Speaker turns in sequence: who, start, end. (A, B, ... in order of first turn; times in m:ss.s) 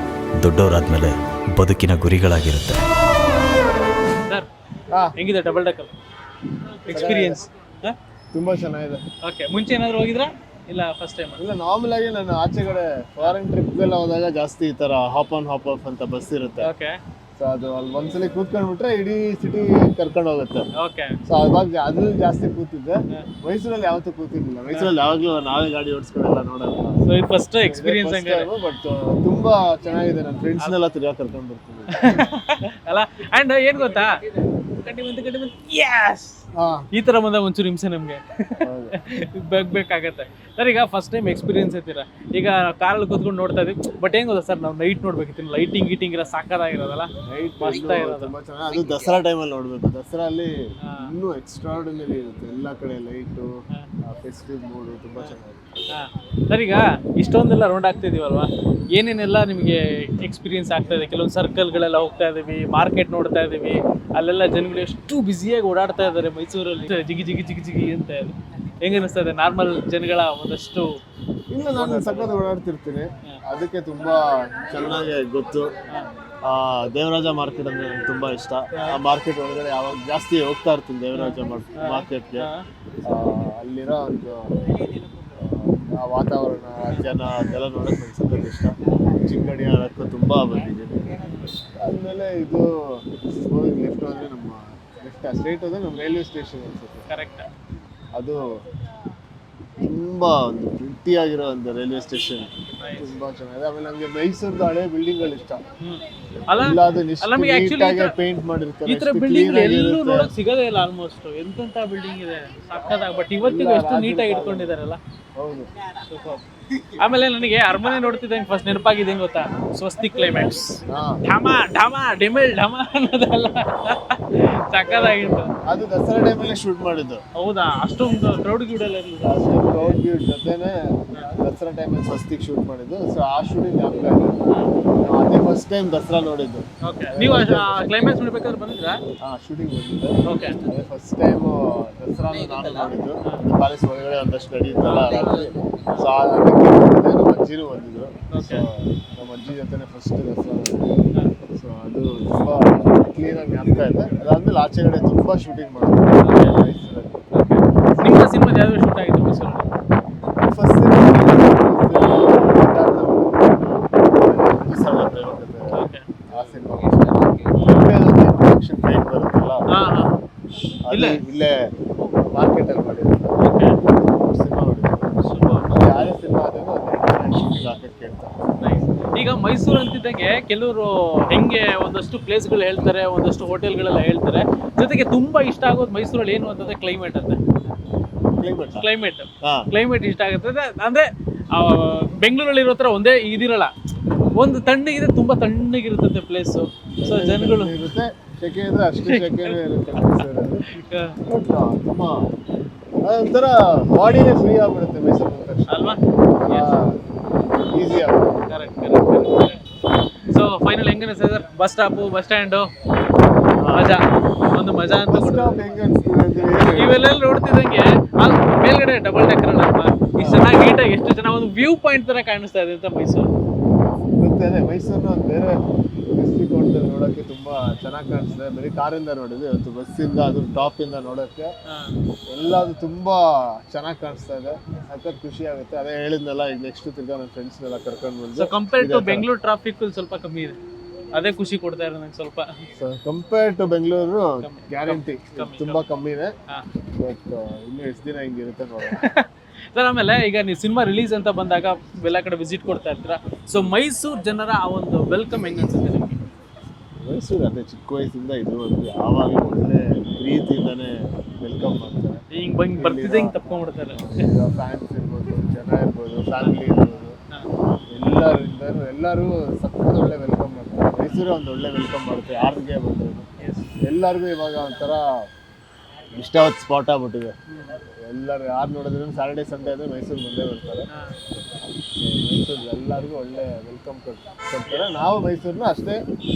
0:00.4-0:02.9 A
0:05.2-0:05.9 B
0:06.8-0:08.0 B
0:06.9-0:07.5 C
0:08.3-0:09.0 C
0:09.2-0:11.4 B
0:11.4-0:16.7 C
0:16.6-0:17.0 B
0:17.4-0:20.7 C
0:20.8-0:21.2 B
0:21.3-0:27.0 C
0:27.0-0:28.5 B
0:27.6-0:32.3 C
0:31.9-0:34.1 B
0:34.8-0:48.3 B
0:36.6-0:36.9 C
0:38.6-0:39.0 C
0:47.3-0:53.5 C
0:50.8-0:51.1 B
0:54.0-0:55.6 C
0:55.9-1:11.0 B
1:11.5-1:15.7 C
1:11.7-1:12.3 B
1:16.4-1:22.5 C
1:21.1-1:22.6 B
1:23.0-1:24.5 C
1:25.4-1:31.1 C
1:31.2-1:31.6 B
1:31.8-1:37.1 C
1:37.1-1:37.5 B
1:38.2-1:38.5 C
1:39.8-1:45.6 C
1:42.8-1:43.1 B
1:45.8-1:48.2 B
1:46.5-1:50.3 C
1:48.8-1:55.0 B
1:53.4-1:54.8 C
1:55.4-1:55.7 C
1:56.0-2:05.5 B
2:00.9-2:01.2 C
2:04.8-2:07.2 C
2:07.4-2:10.0 B
2:09.2-2:14.4 C
2:15.0-2:18.0 C
2:16.8-2:19.0 B
2:19.2-2:31.0 C
2:20.2-2:20.6 B
2:24.8-2:26.1 B
2:28.3-2:28.7 B
2:31.6-2:37.2 C
2:36.2-2:36.6 B
2:37.3-2:39.7 B
2:37.9-2:38.3 C
2:40.4-2:45.8 C
2:45.7-2:46.0 B
2:46.3-2:49.7 C
2:49.7-2:50.2 B
2:50.8-2:51.6 C
2:50.9-2:51.2 B
2:52.2-2:55.1 C
2:53.4-2:53.8 B
2:55.2-2:55.8 B
2:55.7-2:58.3 C
2:58.6-3:07.4 B
3:08.4-3:08.9 C
3:08.7-3:13.7 B
3:09.4-3:09.7 C
3:14.4-3:17.8 B
3:17.0-3:20.6 C
3:19.0-3:21.2 B
3:21.3-3:22.3 C
3:23.0-3:27.0 C
3:25.7-3:26.8 B
3:27.7-3:28.4 C
3:28.5-3:29.6 B
3:30.3-3:32.7 B
3:33.6-3:34.0 C
3:33.7-3:35.6 B
3:35.1-3:37.1 C
3:36.6-3:43.3 B
3:40.2-3:40.5 C
3:44.2-3:45.6 C
3:46.1-3:51.5 C
3:51.7-3:52.0 B
3:52.3-3:59.3 C
3:58.4-4:00.6 B
4:01.1-4:02.6 B
4:02.8-4:06.3 C
4:04.4-4:05.8 B
4:07.0-4:09.1 C
4:08.9-4:16.2 B
4:17.0-4:22.2 C
4:22.3-4:24.3 B
4:22.7-4:23.4 C
4:23.9-4:27.2 C
4:27.9-4:33.3 C
4:33.4-4:33.7 B
4:33.8-4:35.0 C
4:36.2-4:37.4 C
4:37.5-4:37.8 B
4:38.1-4:40.9 C
4:40.9-4:41.2 B
4:41.8-4:46.0 C